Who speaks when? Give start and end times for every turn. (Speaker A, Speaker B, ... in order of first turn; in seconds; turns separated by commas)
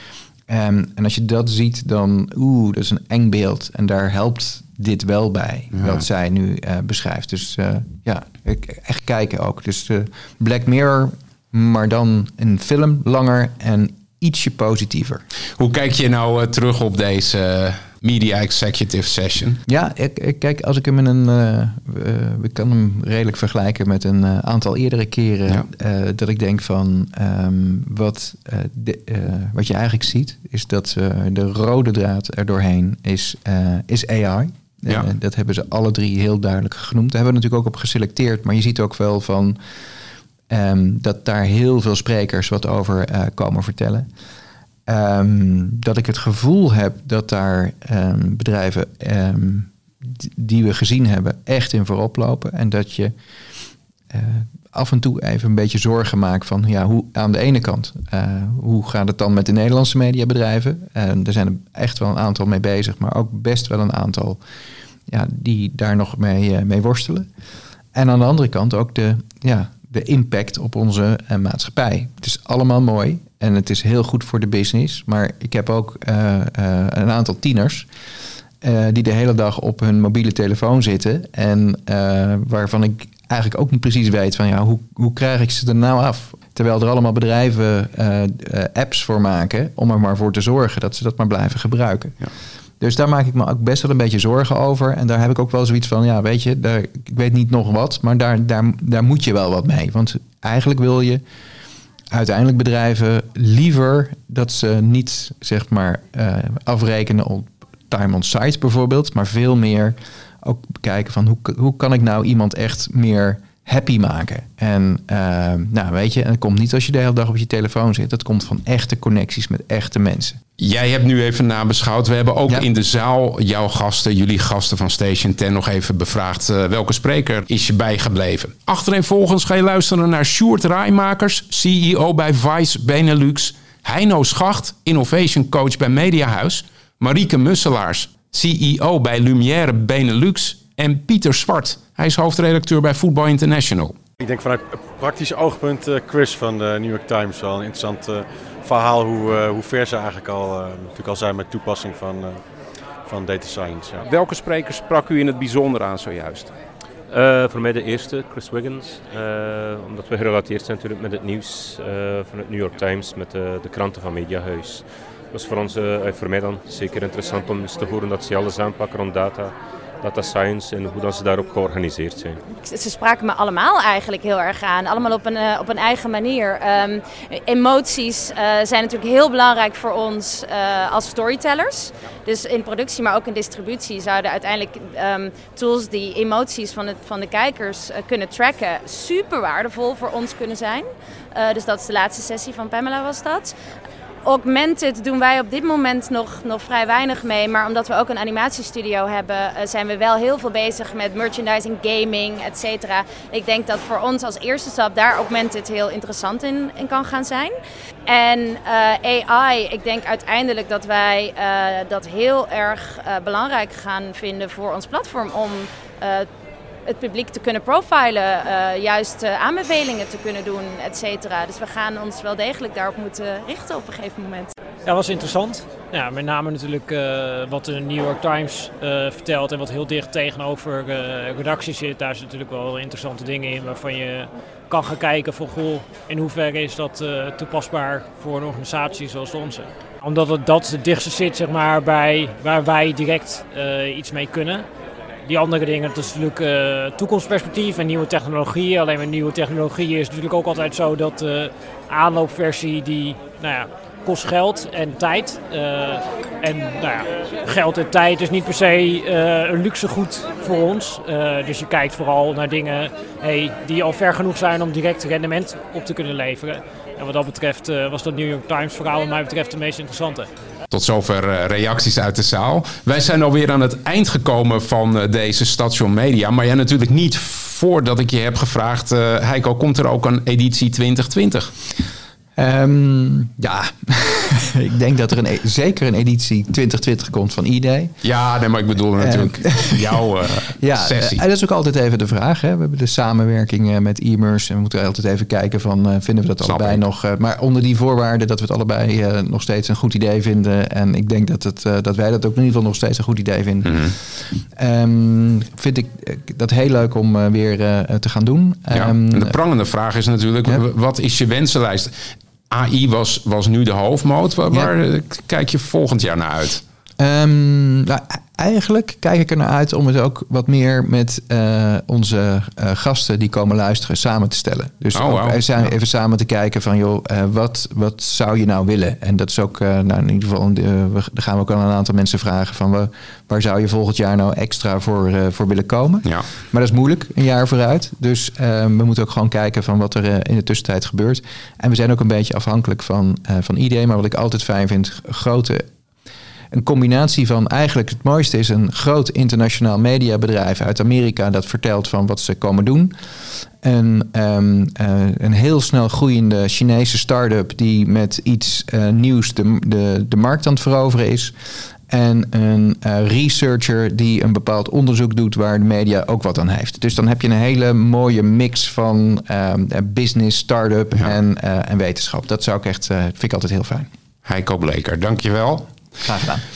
Speaker A: 0.5-15.2, Speaker B: 15.6-19.6, Speaker A: 19.7-39.6, Speaker A: 40.5-44.1, Speaker A: 44.9-53.1, Speaker A: 54.1-64.4, Speaker A: 65.1-67.3, Speaker A: 67.9-77.9, Speaker A: 78.6-92.3, Speaker A: 92.8-101.2, Speaker A: 102.1-120.4, Speaker B: 120.6-144.0, Speaker C: 144.2-152.5, Speaker C: 153.0-154.1, Speaker B: 154.0-156.5, Speaker D: 157.1-172.4, Speaker E: 172.6-193.6, Speaker E: 194.2-207.6, Speaker E: 208.1-216.3, Speaker E: 216.9-224.5, Speaker F: 224.9-244.7, Speaker F: 245.3-270.3, Speaker B: 270.7-281.5, Speaker A: 282.4-288.0, Speaker B: 288.0-291.2, Speaker A: 289.0-309.4, Speaker B: 296.4-296.8, Speaker B: 303.6-303.9, Speaker B: 308.7-316.6, Speaker A: 317.0-345.7, Speaker B: 324.9-325.7, Speaker A: 346.5-373.9, Speaker B: 374.3-375.7, Speaker A: 376.0-376.4